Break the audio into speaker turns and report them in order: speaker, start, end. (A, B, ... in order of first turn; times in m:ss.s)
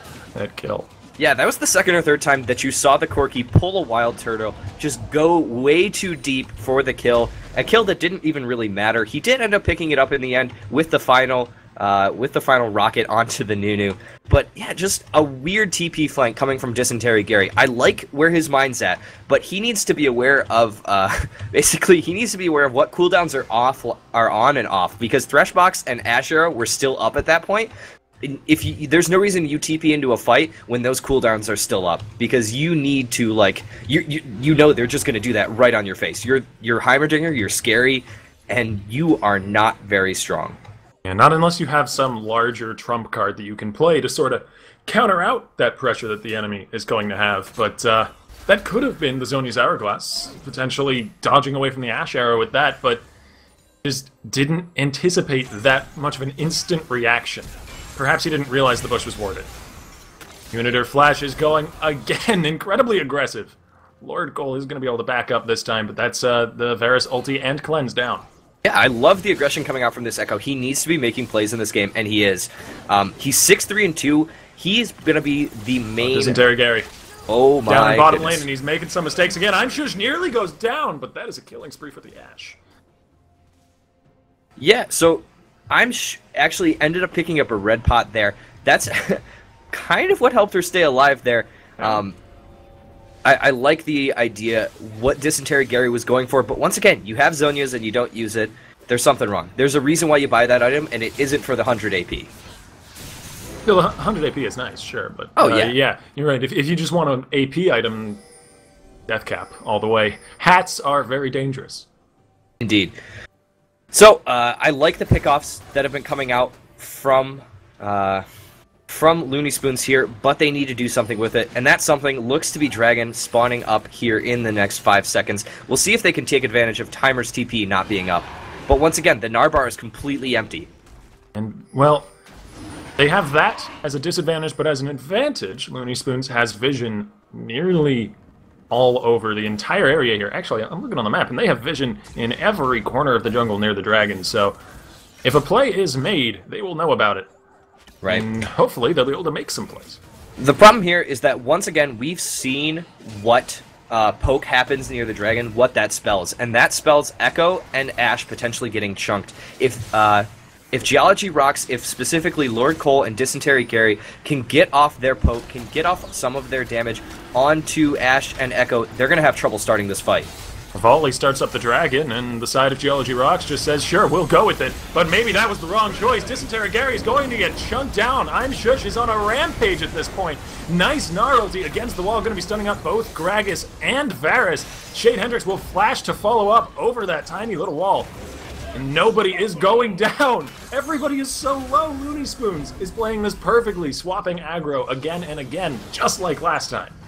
0:00.3-0:00.9 A
0:01.2-0:27.7 B
0:28.2-0:40.6 B
0:41.0-0:53.0 A
0:53.8-0:59.5 A
1:00.5-1:08.2 A
1:08.6-1:16.4 B
1:16.0-1:16.9 A
1:17.3-1:18.4 B
1:17.6-1:22.6 A
1:24.6-1:32.2 B
1:33.2-1:42.3 B
1:43.6-1:48.2 A
1:45.4-1:45.7 B
1:49.1-1:51.9 A
1:52.6-1:53.0 B
1:53.9-1:58.2 B
1:58.9-2:10.7 B
2:11.3-2:12.1 A
2:13.0-2:18.1 A
2:18.7-2:24.6 A
2:25.2-2:27.3 A
2:28.0-2:28.3 B
2:28.1-2:30.0 A
2:30.4-2:50.3 B
2:50.7-3:08.1 A
3:08.7-3:16.9 A